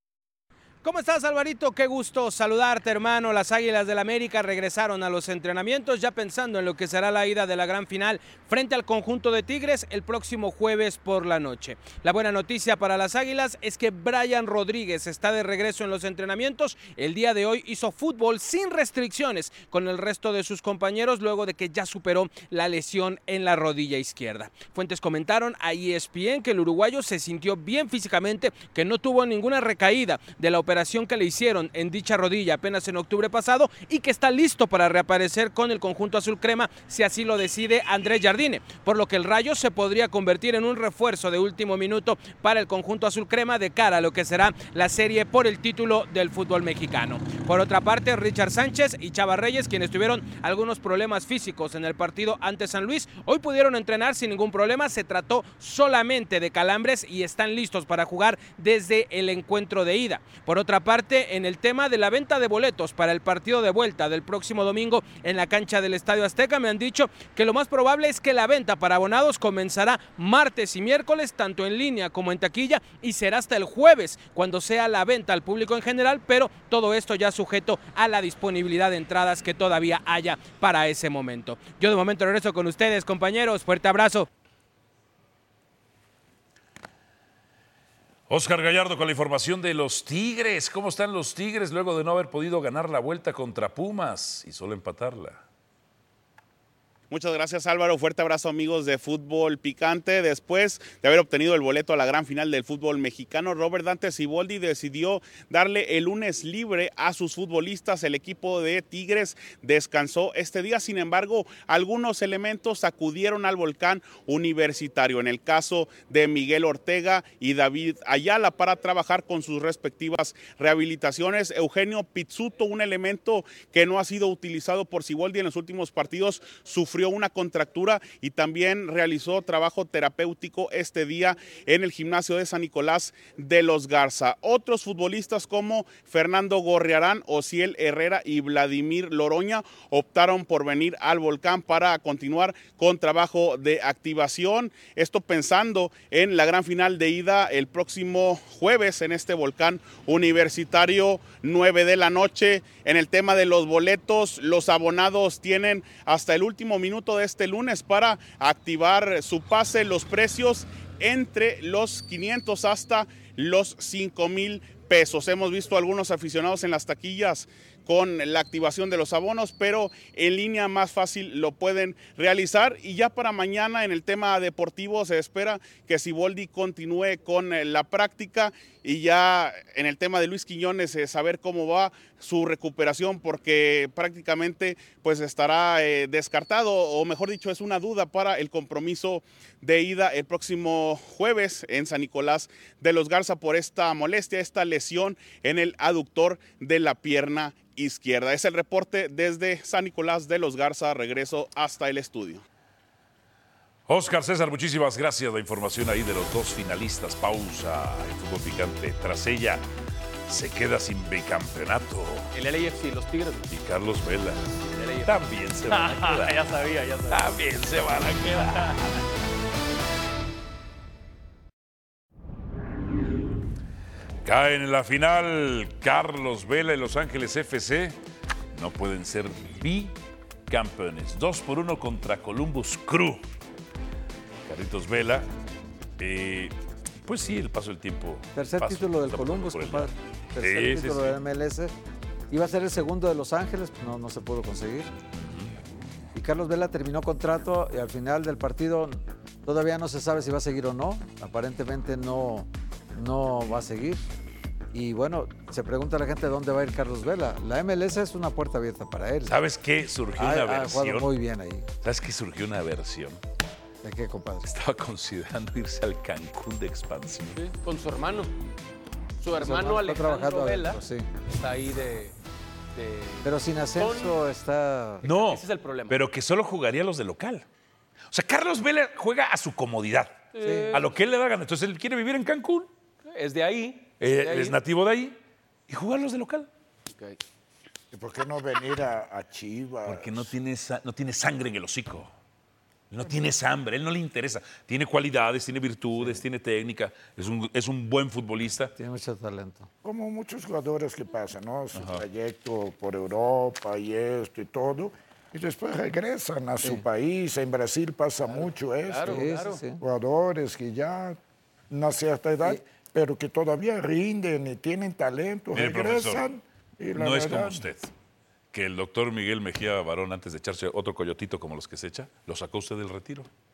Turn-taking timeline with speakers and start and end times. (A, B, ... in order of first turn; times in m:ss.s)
0:00.8-1:24.3 A
1:28.3-1:35.4 B
1:37.1-3:22.4 C
3:23.9-3:29.6 B
3:30.3-3:32.3 B
3:32.3-3:33.5 D
3:33.5-3:39.0 B
3:34.7-3:35.1 D
3:35.7-3:37.3 D
3:44.2-3:48.0 B
3:48.5-3:50.0 B
3:50.5-3:53.3 B
3:54.5-3:55.3 B
3:56.0-4:01.2 B
3:58.4-4:01.7 E
4:02.3-4:04.9 E
4:05.1-4:05.5 B
4:06.1-4:14.1 E
4:14.7-4:19.4 E
4:19.3-4:21.1 B
4:20.2-4:21.7 E
4:21.8-4:23.2 B
4:23.8-4:24.5 E
4:24.5-4:27.5 B
4:27.4-4:28.3 D
4:29.2-4:32.2 D
4:29.4-4:31.1 E
4:32.7-4:34.2 D
4:33.2-4:35.0 E
4:35.0-4:37.4 B
4:35.1-4:36.0 D
4:38.1-4:42.7 B
4:40.3-4:40.9 D
4:40.4-4:40.7 E
4:43.0-4:44.6 D
4:44.0-4:45.2 B
4:45.7-4:46.5 B
4:46.9-4:47.2 D
4:47.9-4:50.3 F
4:49.8-4:52.1 B
4:52.9-4:58.7 B
4:58.8-4:59.7 E
4:59.8-5:09.3 F
5:01.7-5:02.0 B
5:08.8-5:09.6 D
5:09.0-5:09.8 E
5:09.8-5:11.2 F
5:11.7-5:17.6 F
5:15.5-5:16.2 B
5:16.9-5:17.9 B
5:18.5-5:23.3 B